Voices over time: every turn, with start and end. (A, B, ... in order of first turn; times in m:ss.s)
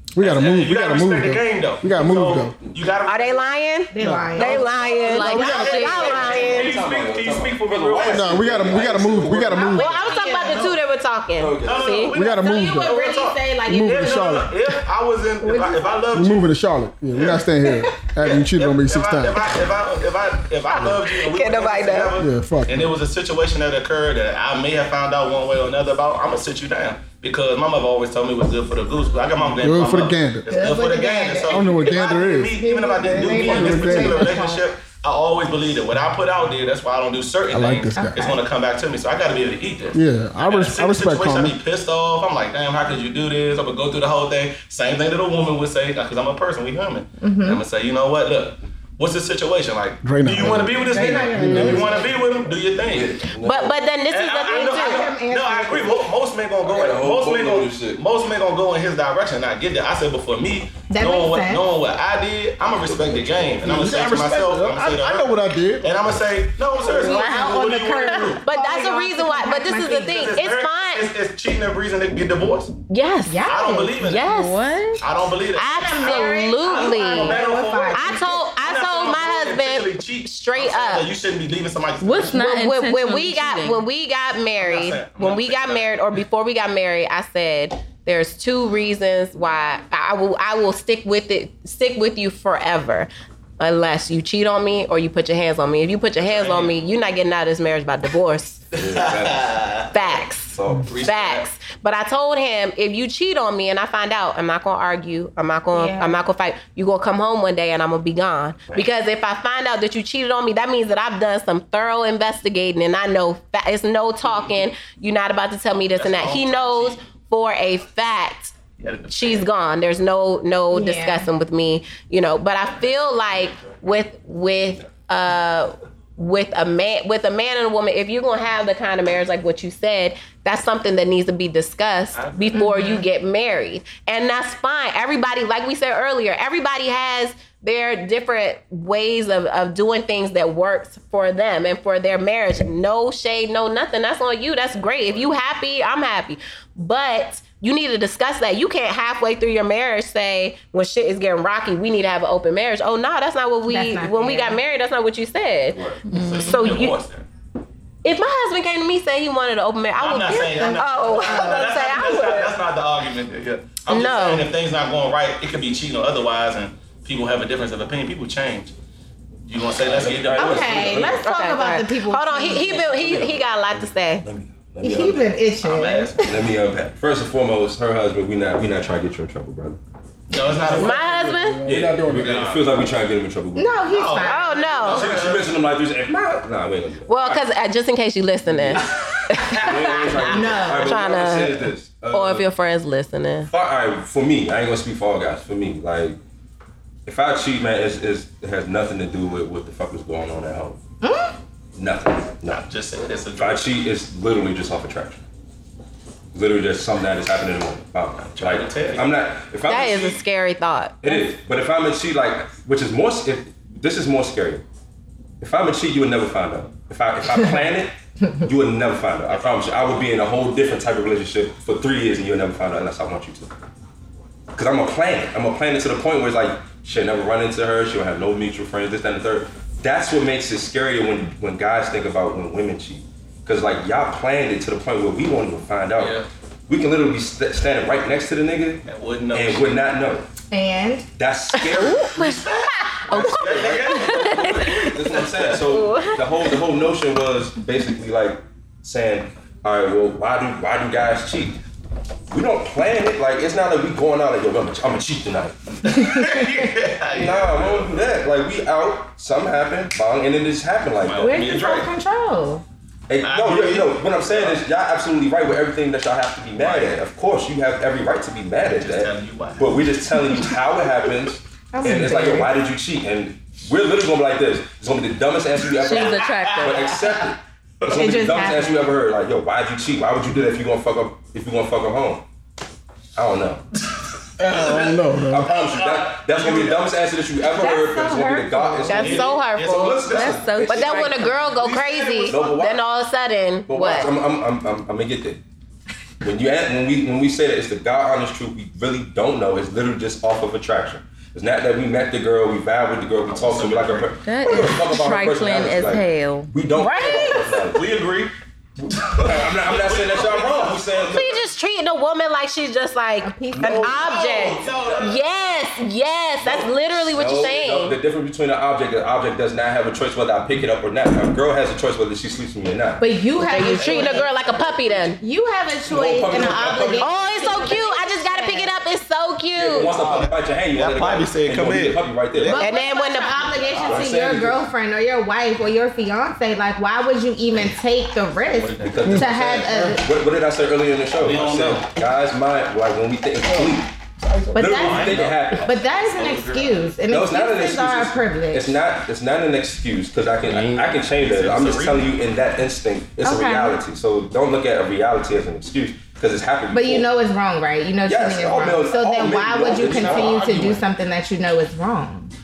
0:00.1-0:02.6 A
0:00.2-0:03.4 B
0:03.0-0:06.8 C
0:03.9-0:06.6 D
0:04.0-0:04.6 A
0:04.6-0:09.1 B
0:05.1-0:06.3 E
0:06.1-0:09.7 F
0:08.0-0:10.1 A
0:09.4-0:10.8 D
0:09.7-0:12.1 C
0:11.4-0:12.0 F
0:11.6-0:16.5 B
0:12.1-0:13.0 A
0:12.2-0:14.7 D
0:13.7-0:14.5 A
0:15.4-0:15.9 D
0:16.1-0:19.5 A
0:17.2-0:17.4 B
0:18.2-0:53.2 B
0:20.8-0:22.2 C
0:22.2-0:22.9 A
0:29.6-0:30.6 A
0:30.5-0:34.6 D
0:31.5-0:32.6 A
0:33.1-0:34.3 A
0:37.5-0:38.4 A
0:38.0-0:38.4 D
0:39.9-0:41.6 A
0:47.2-0:47.6 D
0:50.0-0:52.0 A
0:50.4-0:52.4 D
0:52.7-0:53.8 F
0:53.4-0:55.0 C
0:54.1-1:08.4 B
0:54.6-0:56.1 D
0:56.6-0:58.0 F
1:00.9-1:01.6 D
1:02.6-1:03.9 F
1:03.6-1:05.9 A
1:06.9-1:10.3 D
1:07.0-1:08.2 E
1:08.4-1:11.1 C
1:10.0-1:12.8 B
1:12.9-1:13.5 C
1:13.3-1:14.1 D
1:13.4-1:14.3 B
1:14.0-1:14.6 C
1:14.2-1:15.0 E
1:15.0-1:22.4 B
1:15.6-1:21.1 C
1:15.7-1:18.4 D
1:22.0-1:23.8 E
1:22.3-1:38.6 C
1:24.6-1:26.2 B
1:36.2-1:36.8 B
1:38.8-1:39.5 F
1:38.8-1:39.9 B
1:39.9-1:58.6 C
1:40.6-1:40.9 F
1:40.8-1:41.5 B
1:45.7-1:46.1 D
1:55.8-1:57.0 B
1:58.8-1:59.4 B
1:59.1-2:37.0 C
2:00.7-2:01.3 D
2:12.1-2:12.7 B
2:33.7-2:34.6 D
2:35.7-2:36.0 F
2:36.1-2:36.8 E
2:36.1-2:37.2 B
2:38.0-2:42.5 C
2:39.9-2:48.7 B
2:40.2-2:41.7 D
2:43.9-2:44.4 C
2:49.4-2:51.1 B
2:49.8-2:51.3 F
2:50.4-2:53.0 D
2:51.1-2:54.2 C
2:54.2-2:55.3 F
2:54.8-2:56.3 D
2:55.6-2:56.3 B
2:56.2-2:59.8 F
3:00.3-3:01.0 B
3:00.5-3:02.5 A
3:00.7-3:01.6 C
3:01.6-3:04.2 F
3:02.1-3:02.9 B
3:03.6-3:04.9 D
3:03.8-3:05.6 B
3:04.2-3:05.1 C
3:04.8-3:07.4 F
3:07.1-3:13.5 C
3:08.5-3:08.8 F
3:09.5-3:12.5 F
3:10.3-3:11.0 D
3:13.5-3:16.2 F
3:17.0-3:20.8 F
3:21.0-3:21.3 D
3:21.8-3:22.6 F
3:22.4-3:23.8 B
3:23.4-3:25.2 F
3:26.3-3:30.2 F
3:28.2-3:29.1 B
3:29.6-3:31.0 C
3:31.0-3:34.6 F
3:35.4-3:37.9 F
3:38.4-3:43.7 F
3:44.5-3:58.8 F
3:56.0-3:56.3 B
3:58.8-3:59.9 B
3:59.3-4:00.2 F
4:00.5-4:01.1 D
4:01.2-4:02.4 F
4:02.1-4:05.8 B
4:03.1-4:03.4 C
4:03.1-4:11.6 F
4:05.8-4:06.2 C
4:12.3-4:16.2 F
4:15.8-4:18.1 B
4:17.1-4:21.5 F
4:20.9-4:21.9 B
4:21.2-4:22.6 D
4:23.1-4:42.2 F
4:23.2-4:24.6 B
4:26.6-4:27.0 B
4:28.7-4:30.5 B
4:31.7-4:32.5 D
4:35.6-4:37.1 B
4:35.8-4:37.0 E
4:37.8-4:38.2 B
4:37.9-4:38.9 D
4:43.1-4:43.6 F
4:44.4-4:45.5 A
4:44.4-4:47.0 B
4:45.3-4:51.1 F
4:47.4-4:49.1 D
4:48.9-4:50.0 C
4:48.9-4:52.4 B
4:50.1-4:51.5 E
4:50.6-4:54.1 C
4:52.3-4:52.8 F
4:53.7-4:55.4 F
4:56.2-5:08.0 F
5:03.3-5:04.2 B
5:04.2-5:06.5 E
5:06.7-5:07.7 C
5:07.7-5:08.3 B
5:08.8-5:11.4 B
5:09.0-5:11.4 F
5:11.1-5:18.0 C
5:13.2-5:14.0 D
5:13.6-5:15.2 B
5:16.4-5:23.0 F
5:23.0-5:24.2 D
5:23.4-5:25.2 C
5:23.8-5:24.2 B
5:24.5-5:25.0 F
5:25.2-5:28.7 D
5:25.9-5:27.1 F
5:26.5-5:29.9 C
5:29.6-5:32.6 F
5:29.9-5:32.6 B
5:32.5-5:40.0 D
5:32.6-5:33.5 C
5:33.6-5:34.6 F
5:33.8-5:34.0 B
5:38.4-5:39.1 B
5:38.8-5:43.9 F
5:39.0-5:39.4 A
5:41.1-5:41.9 B
5:43.4-5:44.8 A
5:44.5-5:48.8 D
5:44.6-5:45.7 F
5:44.7-5:46.9 B
5:47.1-5:57.1 F
5:50.4-5:52.1 B
5:53.2-5:53.8 D
5:56.7-6:02.3 D
5:58.0-6:00.8 F